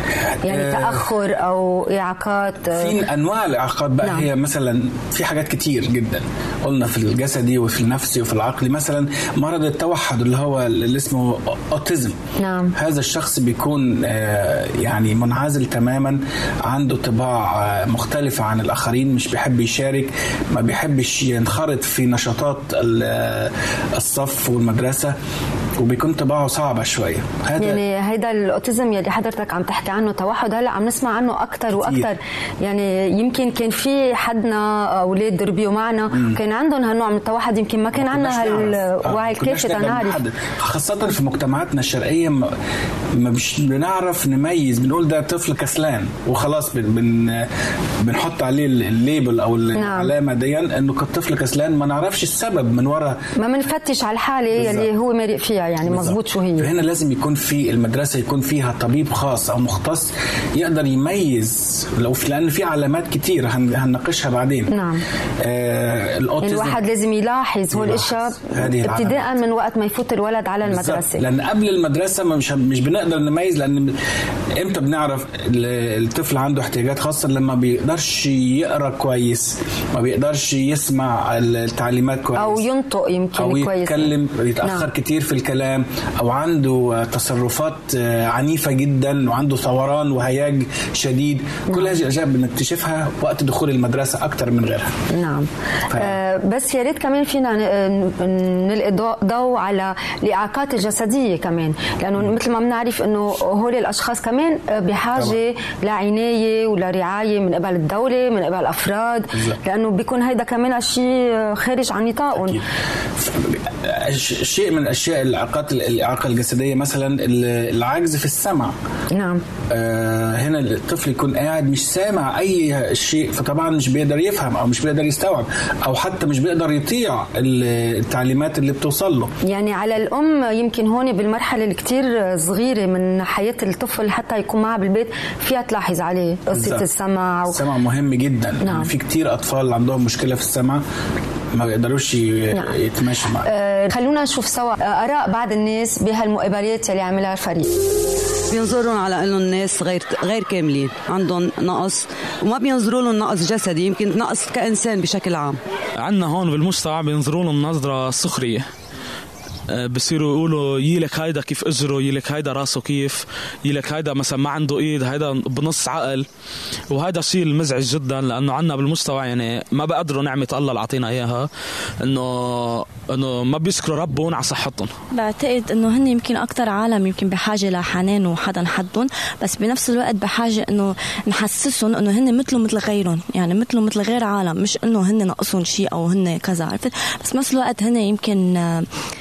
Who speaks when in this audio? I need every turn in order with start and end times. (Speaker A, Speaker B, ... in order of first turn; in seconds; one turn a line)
Speaker A: 0.4-1.1
Speaker B: 0.4-3.0
Speaker A: 2.7-12.2
Speaker B: 12.4-12.7
Speaker A: 12.7-25.1
Speaker A: 25.8-27.8
Speaker B: 27.6-40.2
Speaker A: 31.7-32.1
Speaker A: 36.1-36.4
Speaker A: 37.9-42.5
Speaker A: 43.1-47.5
Speaker A: 48.0-53.2
Speaker B: 49.8-50.1
Speaker B: 53.4-56.7
Speaker A: 54.5-54.9
Speaker A: 55.8-64.7
Speaker B: 64.7-65.0
Speaker A: 65.4-66.8
Speaker B: 66.4-71.2
Speaker A: 67.7-69.4
Speaker A: 70.6-73.9
Speaker A: 74.5-82.6
Speaker B: 82.4-84.1
Speaker A: 83.4-95.0
Speaker B: 95.1-112.6
Speaker A: 95.9-96.2
Speaker A: 109.3-109.6
Speaker A: 112.4-112.6
Speaker A: 113.2-118.8
Speaker B: 119.1-119.4
Speaker A: 119.7-129.3
Speaker B: 129.4-137.6
Speaker A: 136.5-136.8
Speaker A: 137.5-140.8
Speaker B: 138.6-138.9
Speaker A: 141.5-143.5
Speaker B: 143.4-147.7
Speaker C: 148.5-155.6
Speaker D: 156.0-158.7
Speaker D: 159.7-166.3
Speaker D: 166.9-171.5
Speaker D: 172.0-174.9
Speaker E: 175.1-188.9